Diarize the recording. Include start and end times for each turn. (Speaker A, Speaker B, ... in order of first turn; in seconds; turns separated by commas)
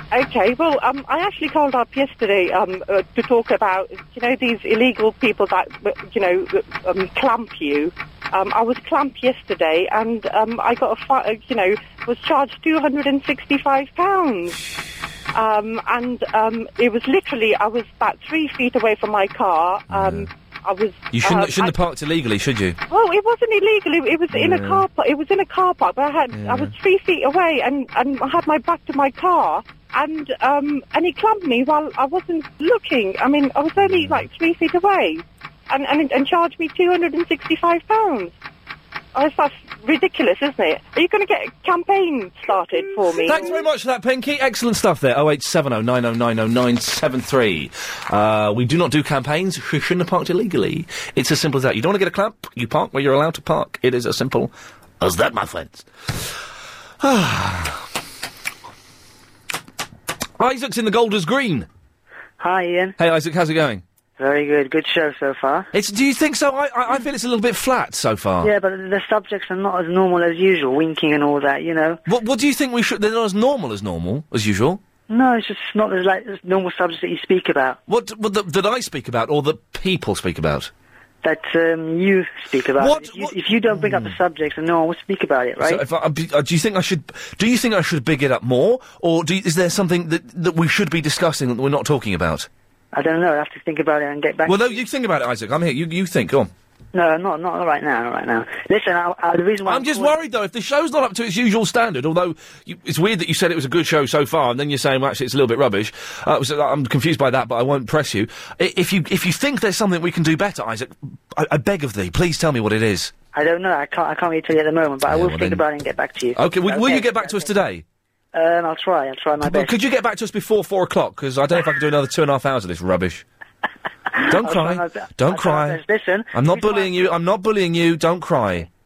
Speaker A: 0.1-14.6, Speaker A: 15.3-21.7, Speaker B: 19.9-20.3, Speaker B: 21.1-22.8, Speaker A: 22.9-38.4, Speaker B: 24.3-24.9, Speaker B: 26.3-26.7, Speaker B: 33.8-34.3, Speaker A: 39.1-43.6, Speaker B: 43.2-56.3, Speaker B: 57.0-57.8, Speaker B: 60.4-61.7, Speaker C: 62.4-63.0, Speaker B: 63.0-63.8, Speaker C: 64.2-65.7, Speaker B: 65.7-68.5, Speaker C: 68.4-72.0, Speaker B: 72.1-74.8, Speaker C: 75.1-77.8, Speaker B: 77.9-80.7, Speaker C: 81.2-85.8, Speaker B: 82.8-84.1, Speaker B: 85.6-92.5, Speaker C: 92.9-94.8, Speaker B: 94.5-96.5, Speaker C: 96.9-100.2, Speaker B: 99.7-113.1, Speaker C: 113.3-117.5, Speaker B: 115.1-115.6, Speaker B: 116.4-117.8, Speaker C: 118.3-119.8, Speaker B: 119.4-123.2, Speaker C: 124.2-126.9, Speaker B: 124.3-125.8, Speaker B: 126.3-128.7